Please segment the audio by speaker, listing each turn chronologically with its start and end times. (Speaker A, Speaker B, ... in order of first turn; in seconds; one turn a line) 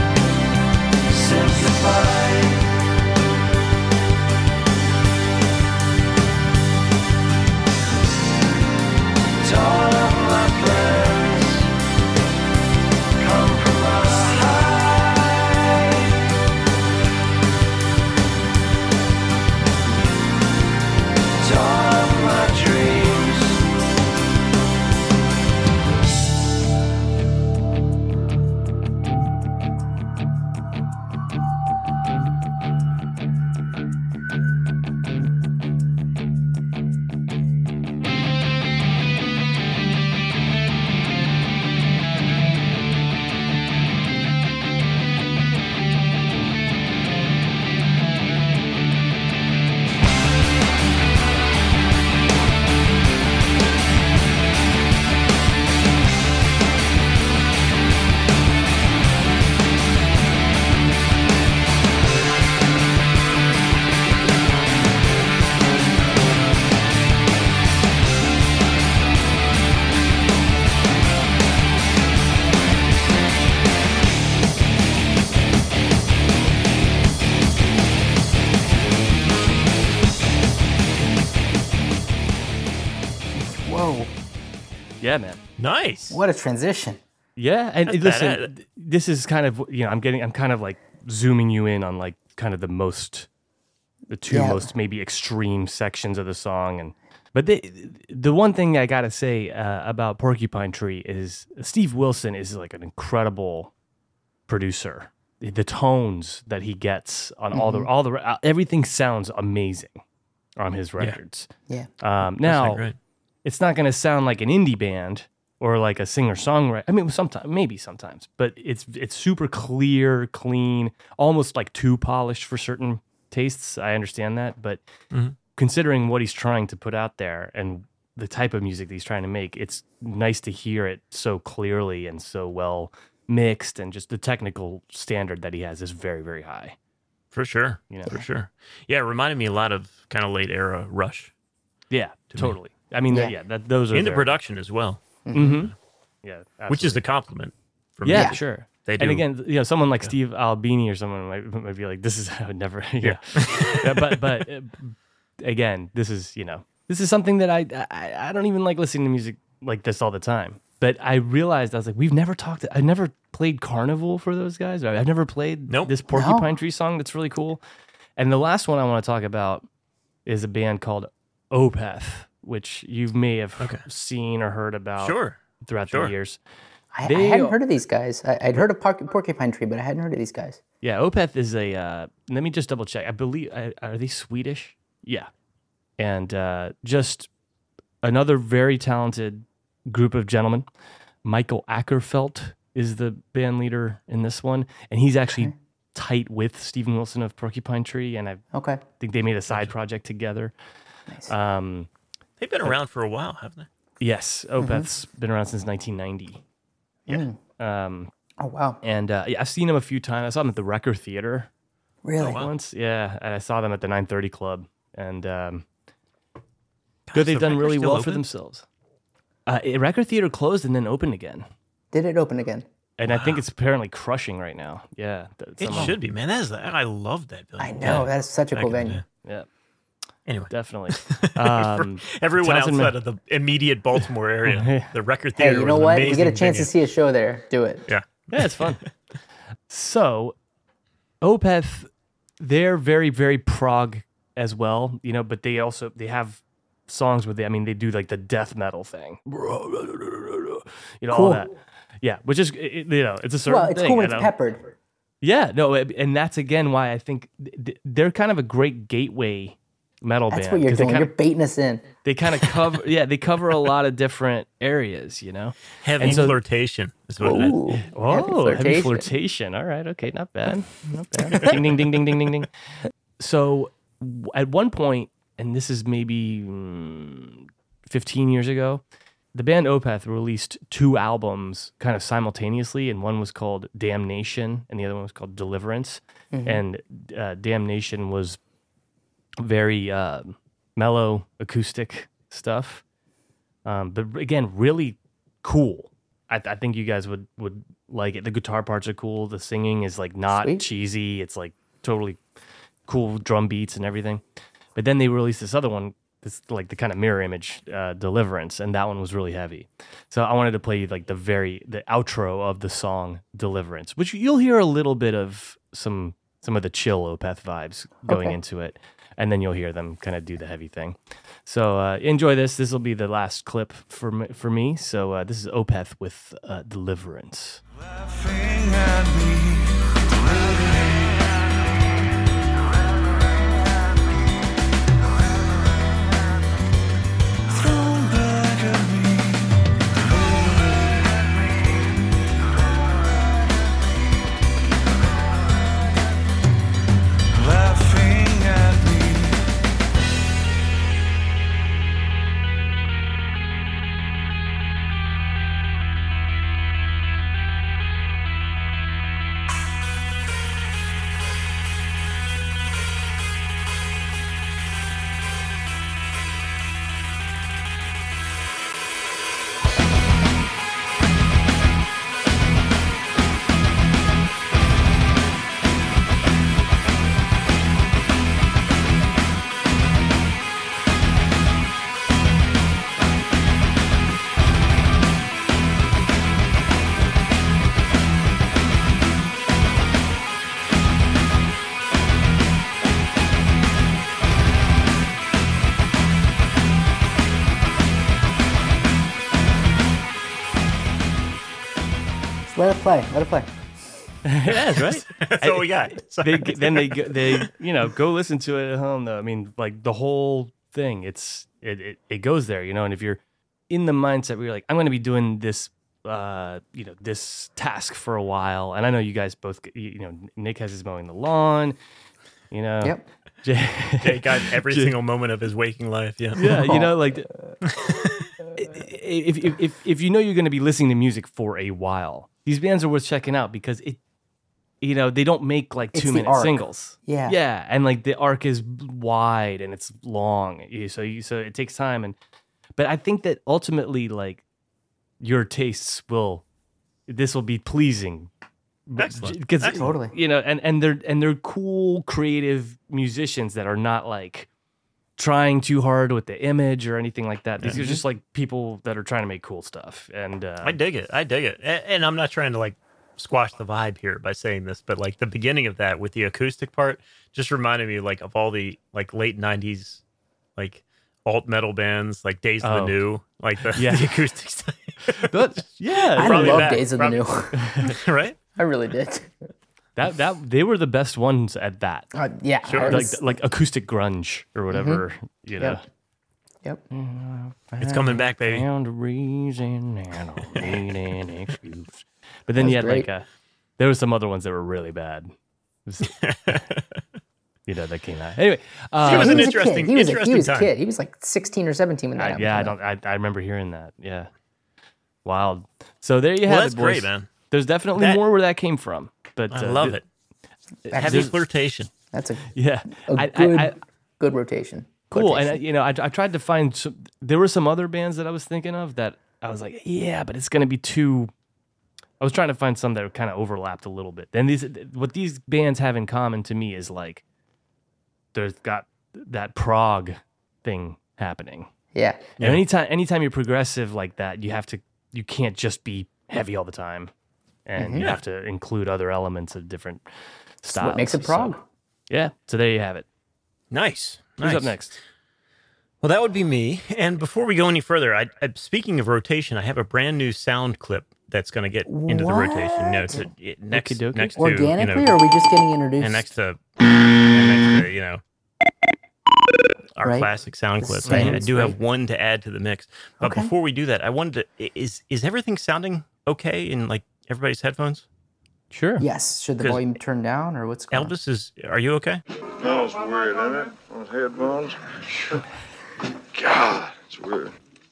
Speaker A: 1.3-2.6
Speaker B: 1.6-2.0
Speaker A: 9.4-11.6
Speaker A: 13.2-16.0
Speaker A: 21.4-23.6
Speaker C: 83.4-84.1
Speaker B: 85.0-85.4
Speaker D: 85.6-86.2
Speaker C: 86.1-87.0
Speaker B: 87.4-93.3
Speaker D: 87.9-88.5
Speaker B: 94.1-103.7
Speaker C: 94.3-94.7
Speaker B: 104.5-110.0
Speaker C: 107.5-107.9
Speaker B: 110.6-112.9
Speaker D: 112.4-113.0
Speaker B: 113.4-124.8
Speaker B: 125.4-136.8
Speaker D: 137.3-141.3
Speaker B: 141.9-144.4
Speaker D: 143.9-145.7
Speaker C: 145.2-145.7
Speaker B: 145.3-147.0
Speaker D: 146.7-149.3
Speaker B: 148.0-167.6
Speaker C: 148.1-148.4
Speaker D: 153.0-154.2
Speaker C: 166.1-166.5
Speaker B: 168.2-169.7
Speaker B: 170.3-176.4
Speaker D: 175.0-176.1
Speaker C: 176.9-180.6
Speaker B: 177.0-177.6
Speaker B: 180.8-185.3
Speaker B: 186.0-187.3
Speaker B: 188.0-190.7
Speaker B: 191.2-198.5
Speaker C: 198.5-198.8
Speaker B: 199.0-200.5
Speaker B: 201.3-201.9
Speaker D: 202.4-203.7
Speaker B: 204.0-206.4
Speaker C: 204.6-204.9
Speaker C: 207.1-207.4
Speaker B: 207.6-208.1
Speaker C: 208.4-208.8
Speaker B: 208.8-211.5
Speaker C: 212.0-212.4
Speaker D: 212.2-212.5
Speaker B: 212.2-215.7
Speaker D: 217.1-218.2
Speaker B: 217.1-218.7
Speaker B: 219.5-221.5
Speaker C: 221.9-222.7
Speaker B: 223.0-226.0
Speaker D: 223.1-223.4
Speaker D: 225.6-229.0
Speaker C: 227.6-229.0
Speaker D: 230.3-236.7
Speaker B: 230.5-233.0
Speaker B: 234.4-234.9
Speaker C: 235.3-237.9
Speaker D: 237.9-238.7
Speaker B: 238.3-239.0
Speaker B: 239.7-240.4
Speaker B: 241.2-254.3
Speaker C: 251.1-251.5
Speaker C: 253.5-254.7
Speaker B: 255.2-261.1
Speaker C: 260.3-261.9
Speaker B: 262.0-266.4
Speaker D: 265.8-267.6
Speaker C: 267.2-269.1
Speaker B: 267.9-272.5
Speaker B: 273.2-288.4
Speaker C: 286.3-286.6
Speaker B: 289.4-292.8
Speaker B: 293.6-302.2
Speaker C: 300.3-300.6
Speaker B: 302.9-304.2
Speaker B: 304.8-327.6
Speaker C: 318.1-318.4
Speaker B: 338.0-338.3
Speaker C: 402.5-403.5
Speaker B: 404.2-421.8
Speaker D: 404.5-407.5
Speaker B: 422.5-425.0
Speaker D: 424.0-426.5
Speaker B: 426.4-427.3
Speaker C: 426.4-426.9
Speaker D: 427.7-428.3
Speaker B: 428.5-434.0
Speaker B: 434.8-442.2
Speaker C: 435.9-437.4
Speaker B: 442.8-444.4
Speaker B: 445.2-446.4
Speaker B: 447.1-448.3
Speaker B: 448.9-454.5
Speaker D: 449.0-449.8
Speaker C: 449.7-450.1
Speaker B: 455.2-460.8
Speaker C: 457.7-458.0
Speaker D: 460.6-470.0
Speaker D: 470.6-478.4
Speaker B: 472.6-473.0
Speaker B: 473.8-474.3
Speaker B: 475.1-476.9
Speaker C: 476.2-478.0
Speaker B: 477.6-477.9
Speaker C: 478.6-479.4
Speaker B: 480.0-482.1
Speaker C: 482.1-483.4
Speaker D: 482.6-483.0
Speaker B: 482.8-485.8
Speaker C: 484.7-485.0
Speaker B: 486.9-487.7
Speaker C: 487.7-488.2
Speaker D: 487.8-488.6
Speaker B: 488.4-493.3
Speaker C: 492.6-493.1
Speaker B: 493.8-495.3
Speaker B: 495.9-496.6
Speaker D: 496.1-497.0
Speaker B: 497.7-499.5
Speaker D: 499.0-500.7
Speaker C: 499.1-502.8
Speaker B: 502.2-504.3
Speaker B: 505.2-510.0
Speaker D: 506.4-507.3
Speaker D: 507.9-508.2
Speaker D: 509.5-510.1
Speaker B: 510.9-511.3
Speaker C: 510.9-511.3
Speaker D: 510.9-511.9
Speaker C: 512.1-515.6
Speaker B: 512.5-513.8
Speaker B: 515.1-521.3
Speaker B: 522.2-527.2
Speaker B: 528.3-531.7
Speaker C: 532.0-532.2
Speaker B: 532.4-537.1
Speaker B: 537.7-541.5
Speaker C: 537.8-538.1
Speaker D: 538.0-538.2
Speaker C: 540.7-541.6
Speaker B: 542.1-543.0
Speaker D: 543.7-544.8
Speaker B: 544.4-545.0
Speaker D: 546.0-555.1
Speaker C: 551.9-553.3
Speaker B: 553.7-554.4
Speaker C: 554.4-556.3
Speaker D: 556.0-558.2
Speaker D: 560.0-568.0
Speaker C: 560.0-560.3
Speaker C: 560.8-561.8
Speaker B: 561.0-561.4
Speaker C: 563.2-563.5
Speaker B: 568.7-569.1
Speaker C: 569.0-571.1
Speaker D: 569.6-569.9
Speaker D: 570.9-572.2
Speaker E: 572.6-575.5
Speaker E: 576.3-577.6